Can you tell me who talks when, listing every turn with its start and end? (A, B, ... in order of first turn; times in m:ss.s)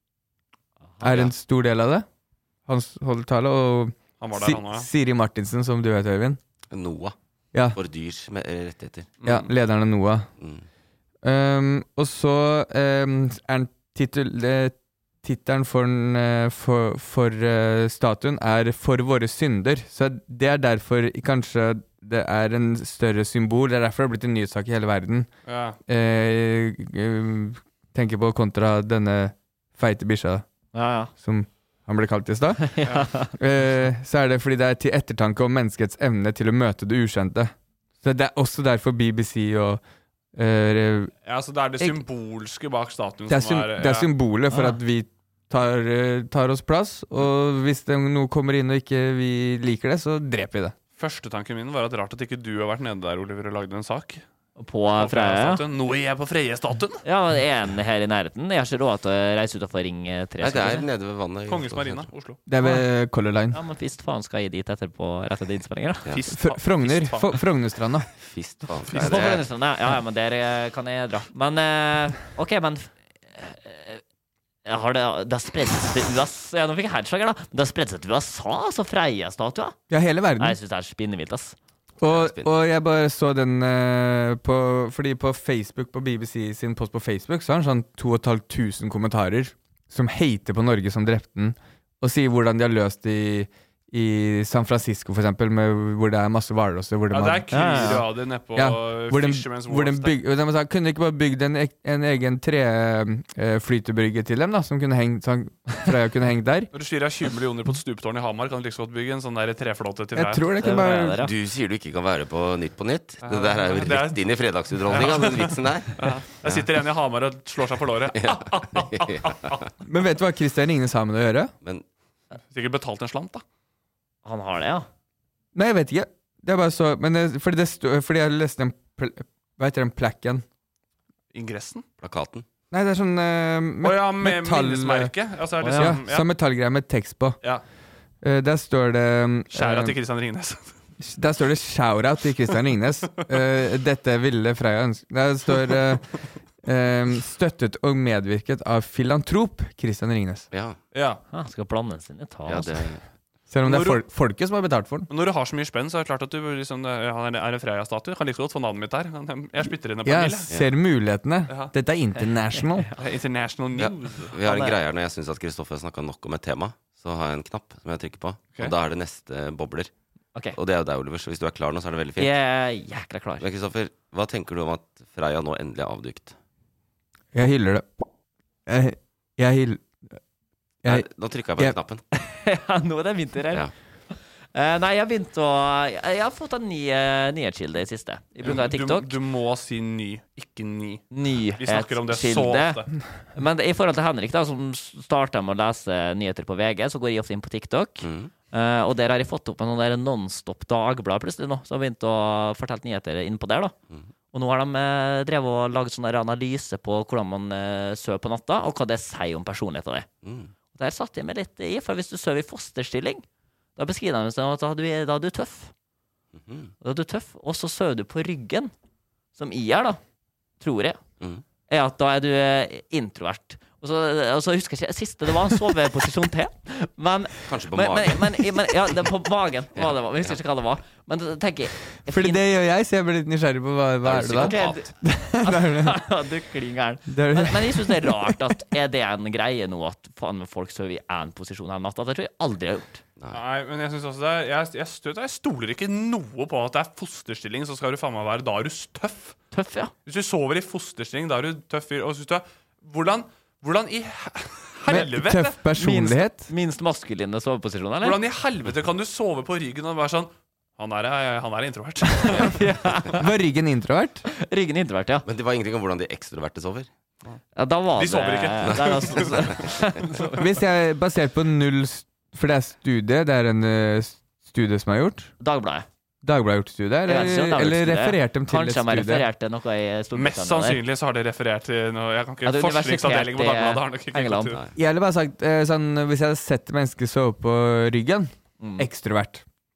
0:01.0-0:02.1 A
0:02.7-0:06.4 A
0:04.2-0:04.9 B
0:06.7-0:07.1 C
0:07.5-0:07.8 A
0:07.8-0:09.1 C
0:09.2-0:09.5 B
0:09.2-0:10.3 A
0:10.4-0:10.6 C
0:11.2-0:25.3 A
0:25.5-0:25.8 B
0:25.9-0:30.4 A
0:30.7-0:31.1 D
0:31.2-0:32.8 A
0:32.8-0:33.3 D
0:32.8-0:33.3 B
0:33.3-0:39.8 A
0:40.4-0:41.1 A
0:41.2-0:44.1 B
0:43.3-0:50.8 A
0:44.5-0:44.8 D
0:51.0-0:54.2 B
0:54.6-0:55.6 D
0:55.0-0:57.0 B
0:57.0-1:00.8 D
1:00.4-1:02.1 C
1:01.5-1:02.4 B
1:02.5-1:03.6 A
1:03.5-1:06.1 D
1:06.1-1:07.4 B
1:06.4-1:08.1 A
1:08.2-1:09.4 C
1:08.9-1:09.4 B
1:09.0-1:14.0 D
1:14.7-1:19.8 D
1:19.9-1:20.6 A
1:20.4-1:21.6 D
1:22.0-1:46.7 A
1:22.1-1:22.5 C
1:37.1-1:40.2 B
1:37.5-1:38.1 D
1:46.7-1:50.5 B
1:50.1-1:51.2 A
1:50.6-1:51.3 D
1:51.2-1:56.7 C
1:53.2-1:54.2 B
1:54.9-1:59.6 B
1:58.1-1:59.6 C
1:59.8-2:01.5 A
2:02.5-2:03.4 B
2:04.2-2:04.9 D
2:05.6-2:10.4 A
2:11.3-2:11.8 B
2:12.0-2:12.5 C
2:12.7-2:15.1 A
2:13.8-2:16.3 B
2:15.6-2:16.0 D
2:15.8-2:17.4 A
2:18.2-2:20.0 A
2:19.5-2:20.8 B
2:21.0-2:26.1 A
2:26.6-2:30.5 A
2:30.5-2:30.8 C
2:30.9-2:31.2 B
2:31.3-2:32.8 D
2:32.5-2:33.0 C
2:33.5-2:35.1 A
2:33.6-2:34.0 B
2:35.1-2:40.5 B
2:40.0-2:42.9 A
2:42.8-2:43.0 D
2:43.0-2:44.4 B
2:43.8-2:49.9 C
2:44.4-2:44.7 D
2:50.6-2:52.3 C
2:52.2-2:53.5 D
2:53.4-2:56.4 C
2:57.3-2:57.9 A
2:58.7-2:59.9 A
3:00.8-3:01.8 A
3:00.8-3:02.0 C
3:02.1-3:09.2 D
3:08.4-3:12.9 B
3:11.1-3:12.8 D
3:13.4-3:23.7 D
3:18.0-3:18.3 C
3:24.3-3:30.1 D
3:30.2-3:30.5 C
3:30.8-3:33.2 D
3:33.8-3:35.7 D
3:36.4-3:36.7 C
3:36.8-3:38.7 D
3:39.4-3:40.0 D
3:40.6-3:41.0 D
3:41.7-3:52.4 D
3:47.4-3:48.6 C
3:49.8-3:50.4 C
3:52.1-3:56.0 A
3:54.1-3:54.8 C
3:54.2-4:03.0 D
3:57.1-3:58.5 A
4:03.3-4:09.4 B
4:09.5-4:09.9 D
4:10.1-4:15.6 B
4:14.9-4:16.5 A
4:15.8-4:18.2 D
4:18.0-4:23.2 B
4:22.3-4:23.2 D
4:23.2-4:24.3 A
4:24.4-4:25.3 D
4:25.2-4:26.9 C
4:27.6-4:30.4 D
4:28.0-4:30.4 B
4:29.6-4:29.8 C
4:30.4-4:35.3 A
4:35.4-4:35.9 D
4:36.2-4:39.3 A
4:37.1-4:40.8 D
4:40.1-4:44.6 B
4:42.4-4:44.6 D
4:44.8-4:49.4 A
4:48.6-4:48.9 D